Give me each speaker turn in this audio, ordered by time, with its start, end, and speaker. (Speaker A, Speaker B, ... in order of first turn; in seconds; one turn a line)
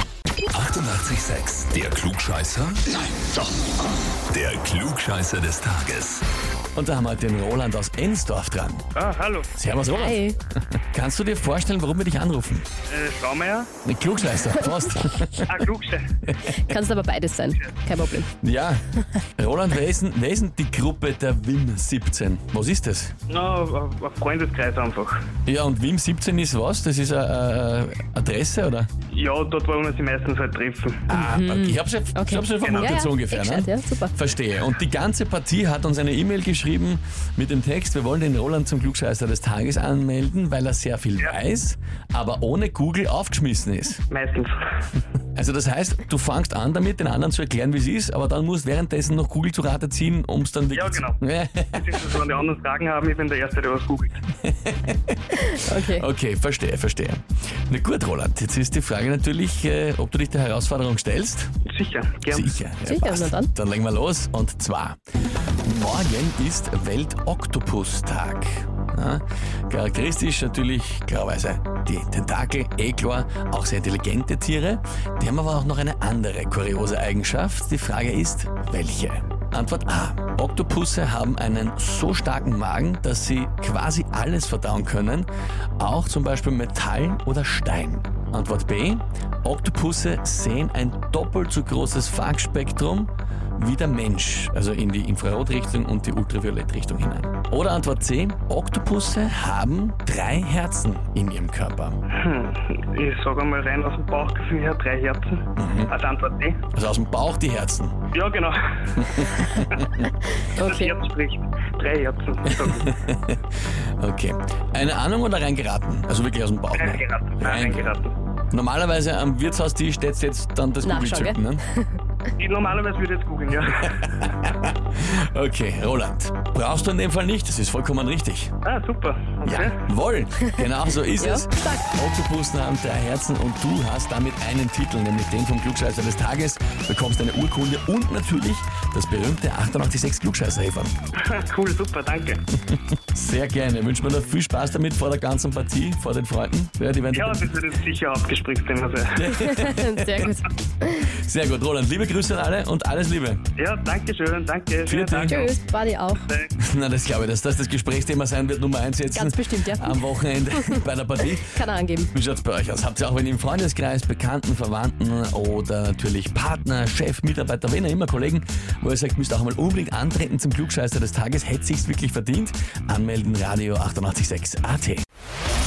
Speaker A: 0.7-2.8
Speaker A: 4.3-6.2
Speaker B: 6.7-8.9
Speaker C: 8.9-9.5
Speaker B: 9.5-12.7
Speaker D: 9.9-10.4
Speaker C: 12.9-13.7
Speaker B: 13.8-15.7
Speaker C: 15.5-16.1
Speaker B: 16.3-16.8
Speaker D: 16.5-18.3
Speaker B: 18.4-23.1
Speaker C: 23.3-25.2
Speaker B: 25.4-28.9
Speaker C: 29.1-31.1
Speaker B: 31.1-44.0
Speaker D: 31.1-34.1
Speaker C: 32.6-33.0
Speaker C: 44.1-44.6
Speaker B: 45.3-52.1
Speaker C: 50.7-51.2
Speaker C: 51.7-54.2
Speaker B: 54.4-61.5
Speaker D: 55.4-56.0
Speaker C: 61.6-62.5
Speaker B: 62.3-65.0
Speaker D: 62.8-63.5
Speaker B: 65.6-85.3
Speaker B: 85.8-102.0
Speaker C: 102.1-106.6
Speaker B: 105.6-105.9
Speaker B: 106.7-108.0
Speaker C: 108.1-109.9
Speaker B: 109.0-110.1
Speaker D: 110.4-110.9
Speaker C: 110.6-112.9
Speaker B: 112.4-117.9
Speaker C: 116.7-118.1
Speaker B: 118.5-121.7
Speaker D: 120.8-121.8
Speaker C: 122.4-124.3
Speaker B: 123.8-128.5
Speaker C: 128.6-129.7
Speaker B: 129.4-140.9
Speaker D: 131.2-131.7
Speaker C: 141.2-142.4
Speaker B: 142.7-147.6
Speaker C: 147.1-149.2
Speaker B: 149.1-150.3
Speaker D: 149.3-151.0
Speaker B: 150.9-153.4
Speaker C: 153.6-155.5
Speaker B: 154.8-155.5
Speaker D: 155.2-156.2
Speaker C: 156.2-156.5
Speaker B: 156.6-175.0
Speaker D: 159.1-160.8
Speaker D: 161.4-162.1